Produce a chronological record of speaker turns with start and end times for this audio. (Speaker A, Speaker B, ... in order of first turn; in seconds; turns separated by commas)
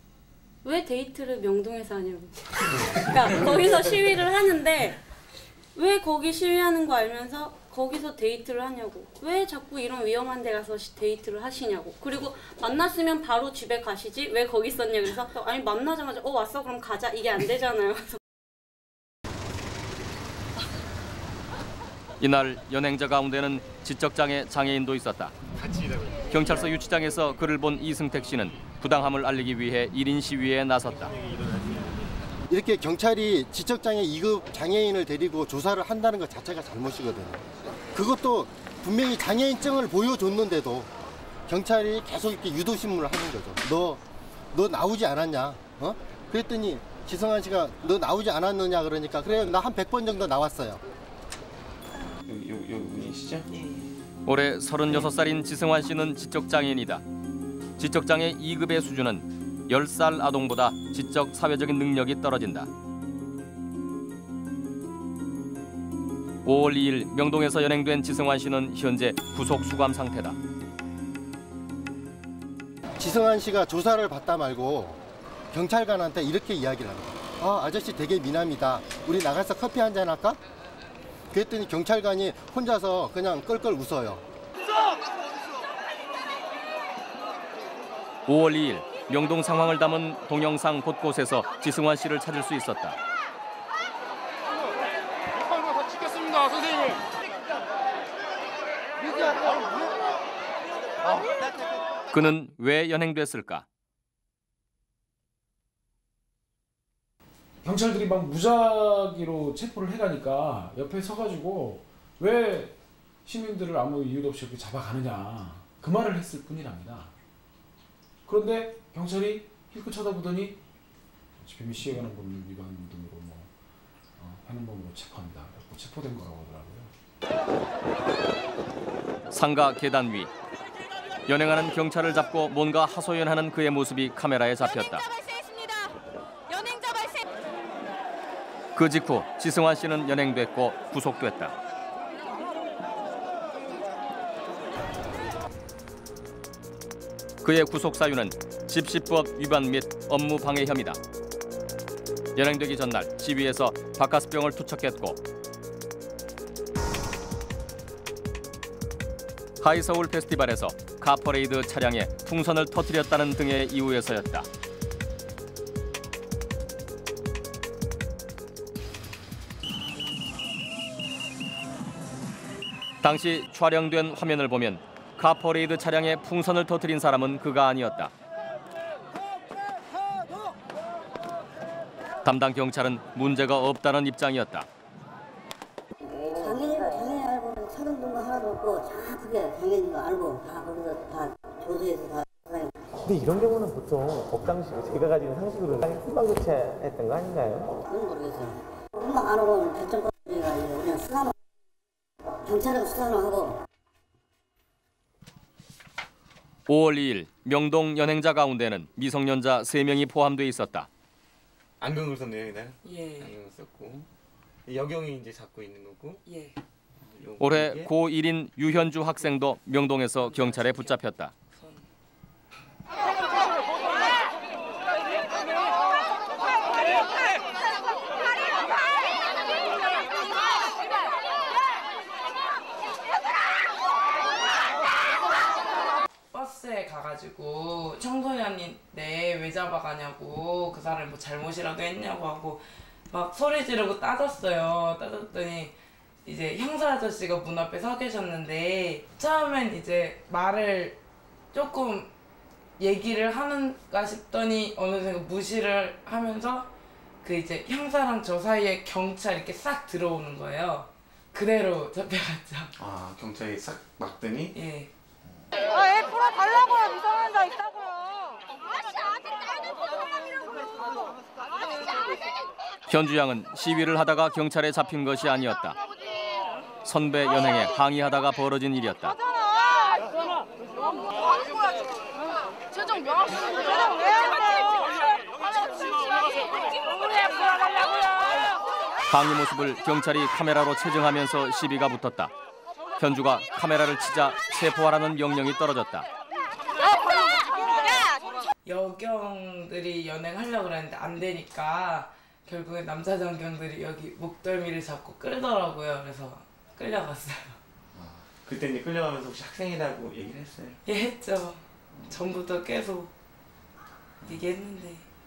Speaker A: 0.6-5.0, Speaker A: 5.7-18.2, Speaker B: 22.2-25.3, Speaker C: 25.6-26.6, Speaker B: 26.3-31.1, Speaker D: 32.5-40.9, Speaker D: 41.5-44.0, Speaker D: 44.5-50.8, Speaker C: 52.3-53.5, Speaker B: 54.2-57.0, Speaker B: 57.8-62.7, Speaker B: 66.4-70.4, Speaker D: 73.0-75.0, Speaker D: 75.5-80.4, Speaker D: 81.3-84.2, Speaker B: 88.2-93.0, Speaker B: 102.1-103.7, Speaker E: 107.7-112.7, Speaker E: 113.3-117.1, Speaker E: 118.3-120.6, Speaker E: 121.4-123.5, Speaker E: 124.2-126.9, Speaker B: 129.3-130.3, Speaker B: 131.3-135.0, Speaker F: 134.6-135.9, Speaker F: 136.5-137.2, Speaker B: 138.7-141.5, Speaker B: 147.4-151.0, Speaker B: 152.3-155.2, Speaker B: 159.6-164.5, Speaker B: 173.0-178.1, Speaker B: 182.2-184.7, Speaker G: 186.2-192.7, Speaker C: 193.0-197.7, Speaker G: 197.9-201.3, Speaker G: 202.4-203.5, Speaker B: 206.7-210.9, Speaker C: 211.8-214.1, Speaker H: 212.8-213.3, Speaker C: 214.7-216.2, Speaker H: 216.2-216.6, Speaker C: 217.0-217.9, Speaker B: 217.4-221.3, Speaker H: 221.6-221.8, Speaker H: 236.3-245.7, Speaker H: 246.2-251.0, Speaker H: 251.5-252.1, Speaker H: 252.8-256.7, Speaker H: 257.2-262.7, Speaker C: 262.8-264.5, Speaker H: 264.5-264.9, Speaker B: 272.9-275.8, Speaker B: 276.8-279.1, Speaker B: 289.1-292.3, Speaker B: 293.0-296.0, Speaker H: 298.6-307.6, Speaker C: 307.9-310.8, Speaker H: 310.8-313.1, Speaker H: 314.2-315.1